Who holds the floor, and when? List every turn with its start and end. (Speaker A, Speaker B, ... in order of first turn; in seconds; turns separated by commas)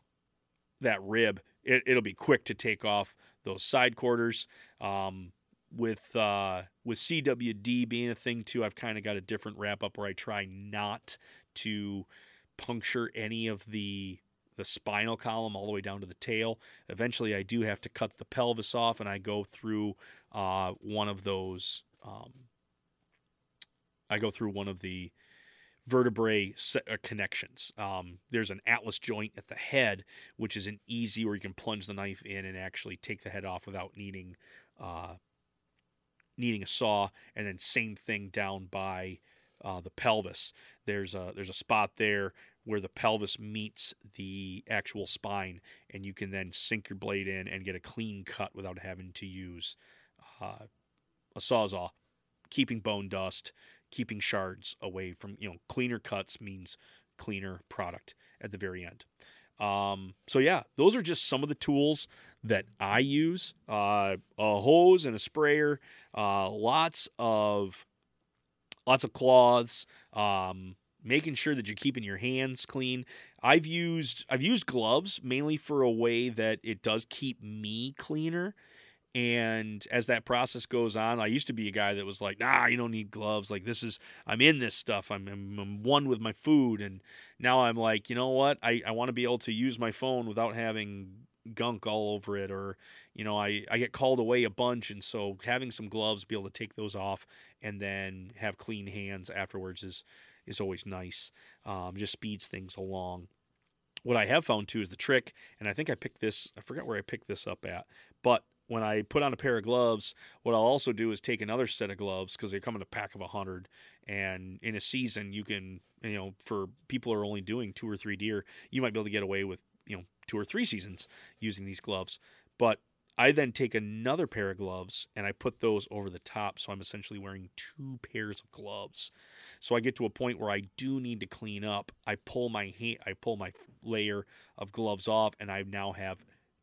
Speaker A: 0.8-22.5, Speaker A: 24.1-25.1, Speaker A: 25.9-35.2, Speaker A: 36.4-50.6, Speaker A: 51.4-51.9, Speaker A: 52.5-59.1, Speaker A: 59.6-67.8, Speaker A: 68.9-78.5, Speaker A: 79.1-103.3, Speaker A: 104.0-136.2